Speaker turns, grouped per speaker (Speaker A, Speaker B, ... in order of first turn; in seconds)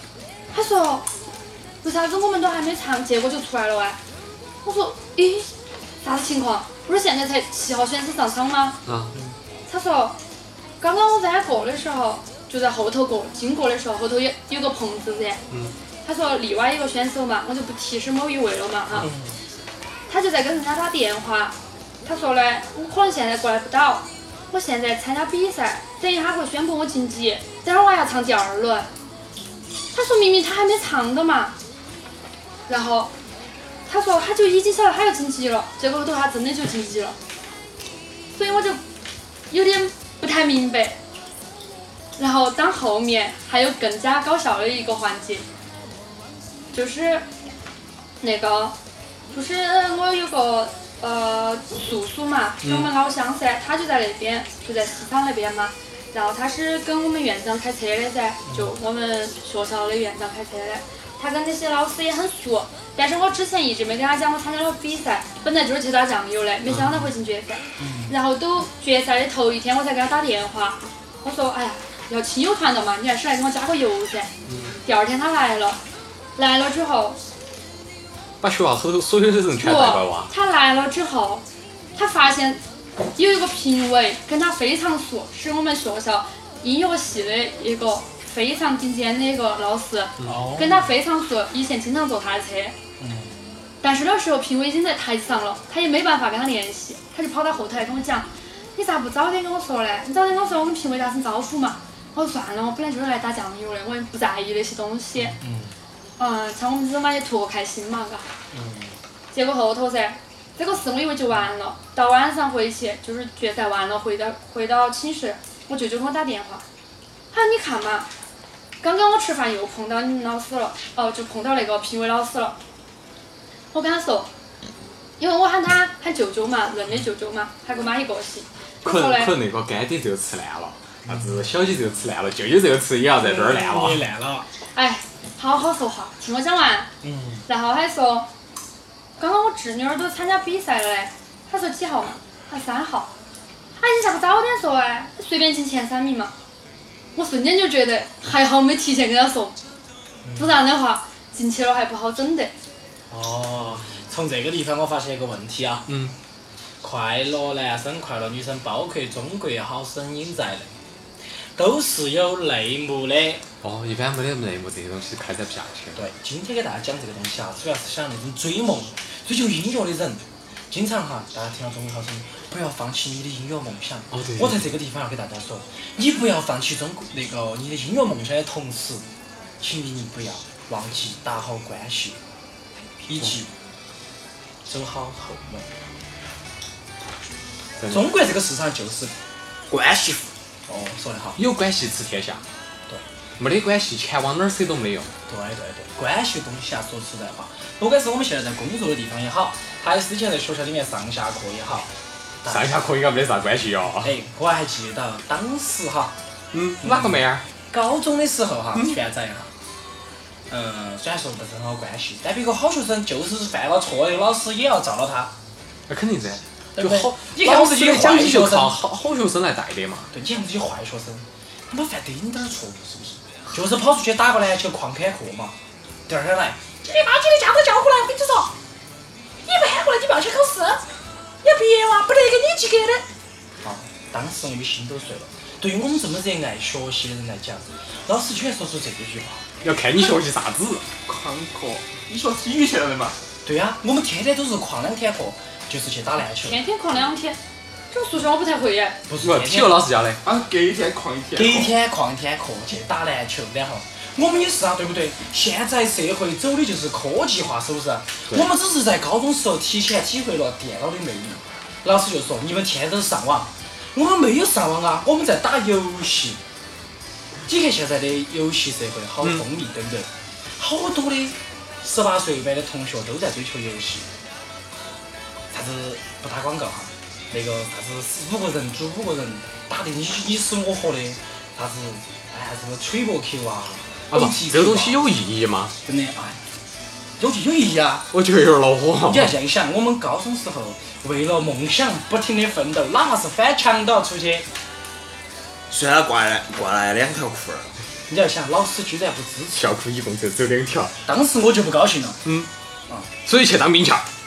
Speaker A: 0.5-1.1, 1.8-4.0, 4.6-5.5, 6.0-8.8, 9.7-10.2, 10.8-15.4, 16.0-19.1, 20.1-28.9, 29.9-31.6, 32.7-33.1, 33.9-37.2, 38.3-38.8, 39.5-41.0, 42.2-45.4, 46.7-47.2, 48.2-48.8, 49.3-74.3, 74.8-75.8, 76.4-77.2, 79.6-82.6, 83.2-92.8, 93.8-105.4, 106.2-108.3, 109.3-116.6, 117.3-118.1, 118.8-122.6, 123.7-124.3, 125.2-129.3, 134.7-136.9, 137.5-138.3, 139.2-143.1, 143.8-146.3, 147.2-149.6, 150.3-152.5, 246.4-247.4, 247.9-249.0
Speaker B: 8.8-9.1, 74.5-74.7, 78.4-80.3, 128.8-134.0, 155.9-156.1, 163.6-166.0, 174.1-174.7, 187.8-188.1, 191.3-192.4, 193.4-195.1, 202.4-204.1, 206.5-207.4, 215.9-220.1, 239.6-240.9, 249.2-250.2, 284.1-285.7, 288.1-289.3, 299.5-300.9, 303.2-304.0
Speaker C: 19.0-19.4, 58.5-58.7, 66.7-67.0, 67.8-68.1, 90.2-90.9, 93.0-93.3, 105.2-105.7, 108.5-109.0, 131.1-131.4, 133.2-134.4, 137.0-137.4, 150.2-150.6, 153.1-155.9, 156.8-160.7, 161.6-163.4, 165.9-179.0, 179.6-182.2, 183.1-183.5, 184.7-185.7, 187.9-189.1, 190.7-191.4, 195.3-201.9, 202.4-202.8, 204.0-206.2, 206.8-209.5, 210.5-215.3, 216.8-218.8, 220.1-225.6, 226.1-228.5, 229.4-230.8, 231.4-233.0, 233.6-239.4, 243.4-246.6, 249.1-249.9, 251.3-266.4, 267.4-274.1, 275.5-285.0, 285.8-286.4, 287.2-288.1, 289.1-294.4, 298.1-299.6, 301.0-302.2
Speaker D: 189.7-190.3, 295.7-297.7
Speaker E: 241.0-243.2, 250.2-251.7